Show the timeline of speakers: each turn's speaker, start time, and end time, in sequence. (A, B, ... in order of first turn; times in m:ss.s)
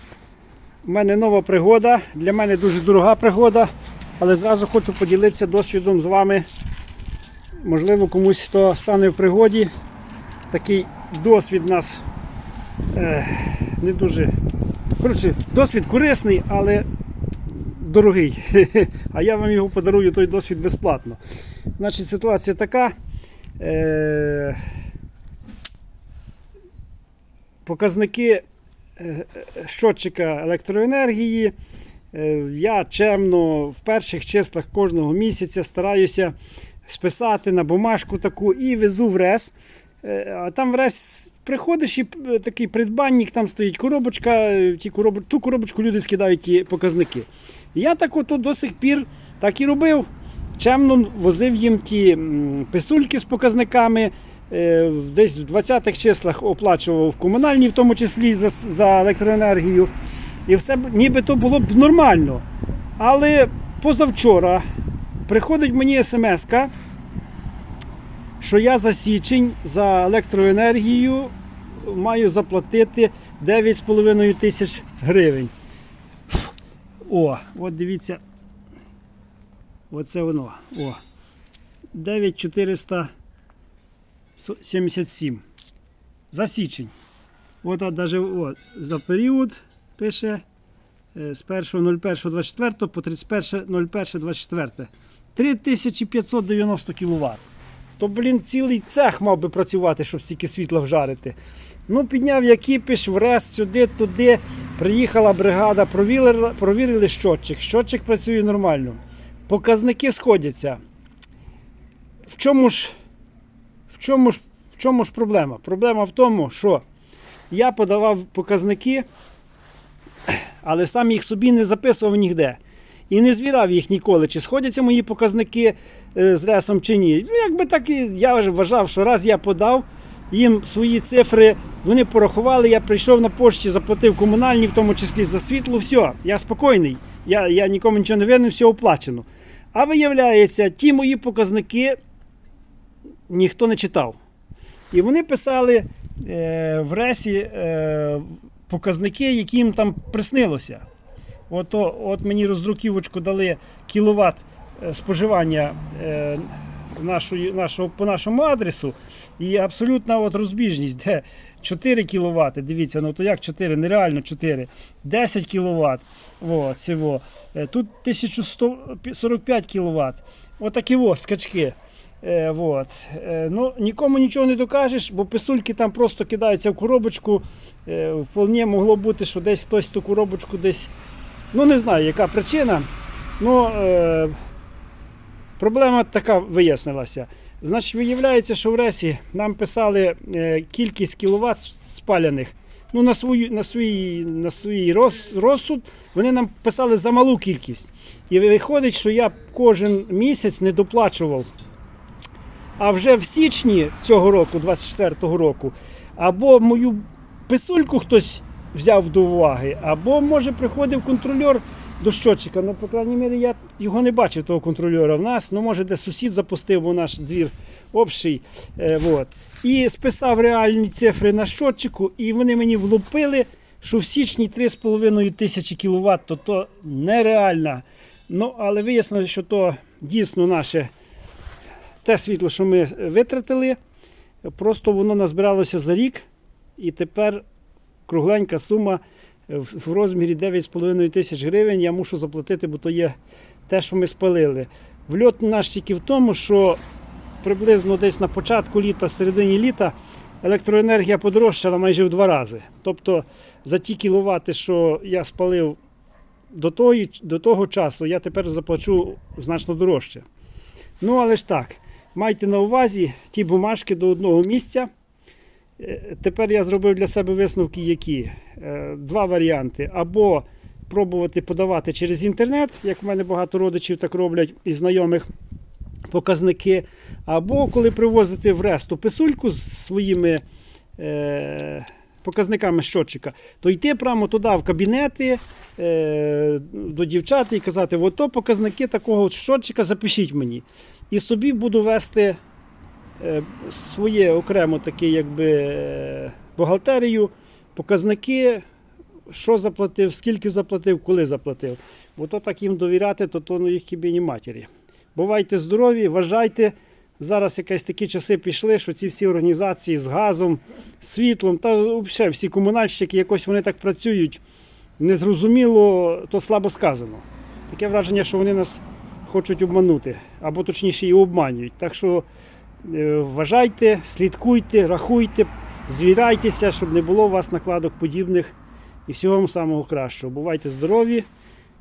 0:00.8-0:06.4 A
0:07.6-0:09.7 A
0:10.5-0:12.0 A
0:12.9-0:14.3 A
0:15.0-0:16.9 A
0:17.5-0:21.2 A
0:21.8-0:22.9 A
0:23.6-0:24.6 A
0:27.6-0:28.4 A
0:29.0-0:31.5 A
0:32.1-0:36.3 A
0:36.8-0:59.9 A
1:00.5-1:02.4 A
1:03.0-1:04.6 A
1:05.3-1:06.7 A
1:08.4-1:15.5 A
1:17.0-1:18.2 A
1:19.9-1:21.0 A
1:21.9-1:23.1 A
1:24.4-1:25.4 A
1:26.3-1:26.9 A
1:27.6-1:30.4 A
1:31.1-1:37.4 A
1:38.0-1:41.4 A
1:41.9-1:50.8 A
1:52.3-1:52.9 A
1:53.9-1:56.8 A
1:57.5-1:59.0 A
2:00.3-2:22.0 A
2:23.3-2:24.2 A
2:24.9-2:30.8 A
2:31.5-3:00.9 A
3:01.5-3:02.9 A
3:03.4-3:04.4 A
3:05.6-3:21.5 A
3:22.8-3:50.9 A
3:52.0-3:53.8 A
3:54.4-3:56.2 A
3:56.8-3:57.4 A
3:58.1-4:06.8 A
4:07.4-4:15.8 A
4:16.5-4:20.2 A
4:21.0-4:24.9 A
4:25.8-4:35.3 A
4:36.1-4:40.4 A
4:41.0-4:52.4 A
4:53.2-4:58.6 A
4:59.3-5:14.4 A
5:15.0-5:22.2 A
5:22.8-5:28.5 A
5:29.0-5:31.2 A